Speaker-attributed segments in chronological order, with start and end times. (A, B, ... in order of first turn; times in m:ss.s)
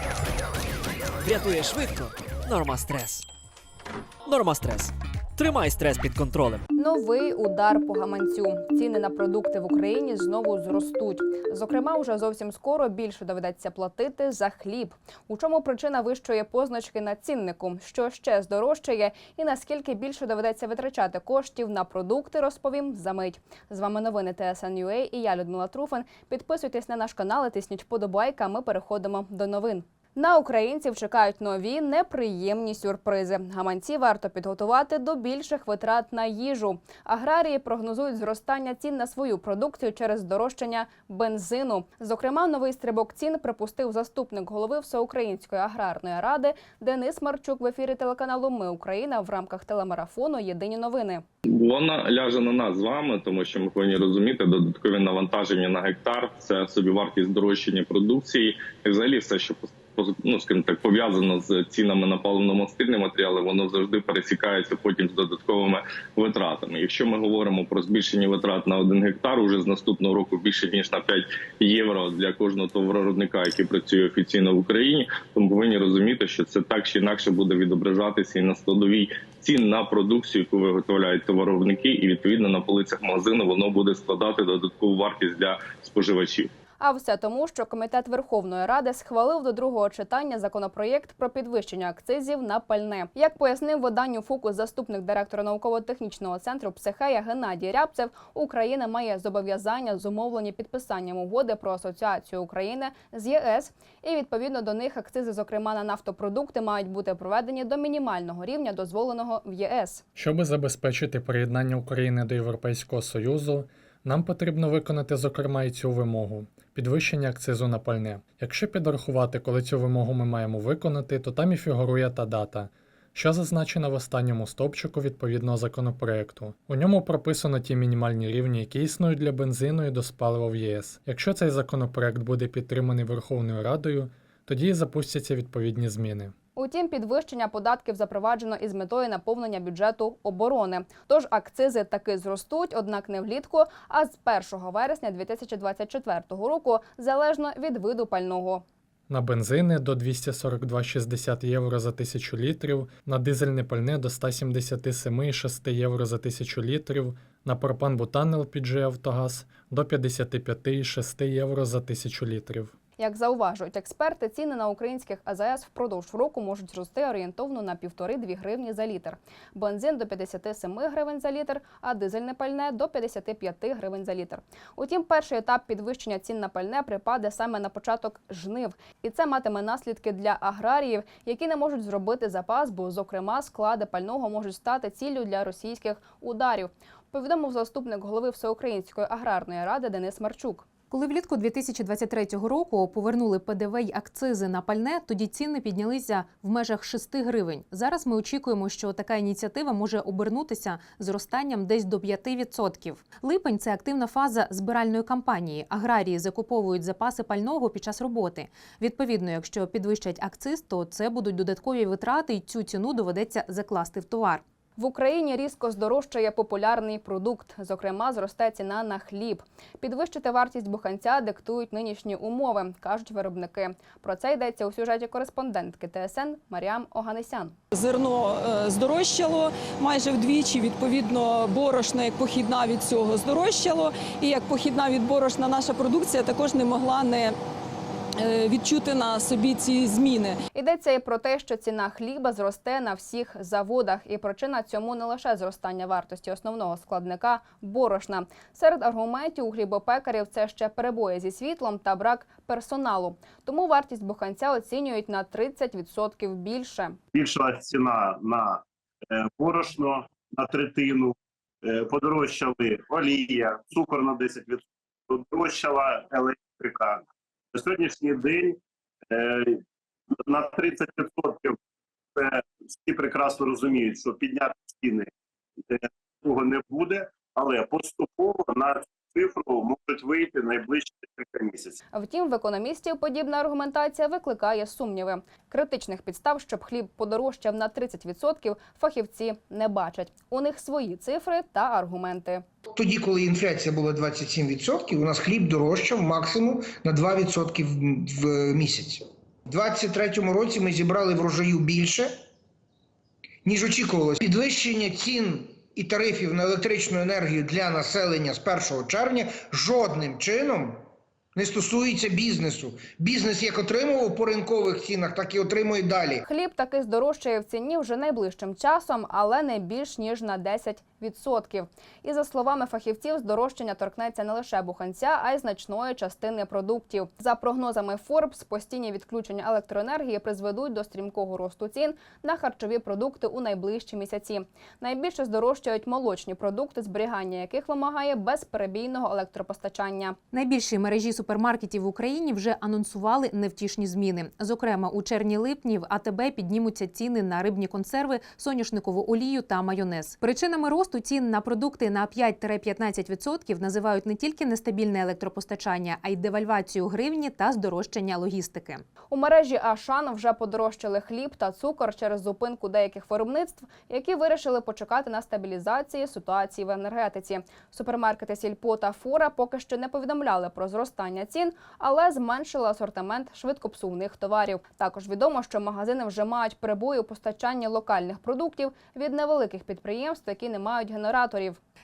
0:01.2-0:03.3 A
0:04.2-0:06.7 A
0:06.8-0:51.2 B
0:51.5-1:26.5 C
1:26.8-1:50.0 B
1:50.2-2:16.3 D
2:16.6-2:28.6 B
2:29.1-2:42.7 D
2:43.0-3:10.7 B
3:10.9-3:34.4 E
3:34.8-3:47.5 B
3:47.7-3:57.4 F
3:58.2-4:00.4 F
4:00.6-4:17.0 B
4:17.1-4:28.6 G
4:29.1-4:31.6 G
4:32.2-4:35.1 G
4:35.7-4:41.8 G
4:41.9-4:52.4 B
4:52.7-5:02.1 H
5:03.4-5:10.8 H
5:11.4-5:16.2 H
5:16.2-5:40.2 B
5:40.3-5:58.8 E
5:59.1-6:21.6 B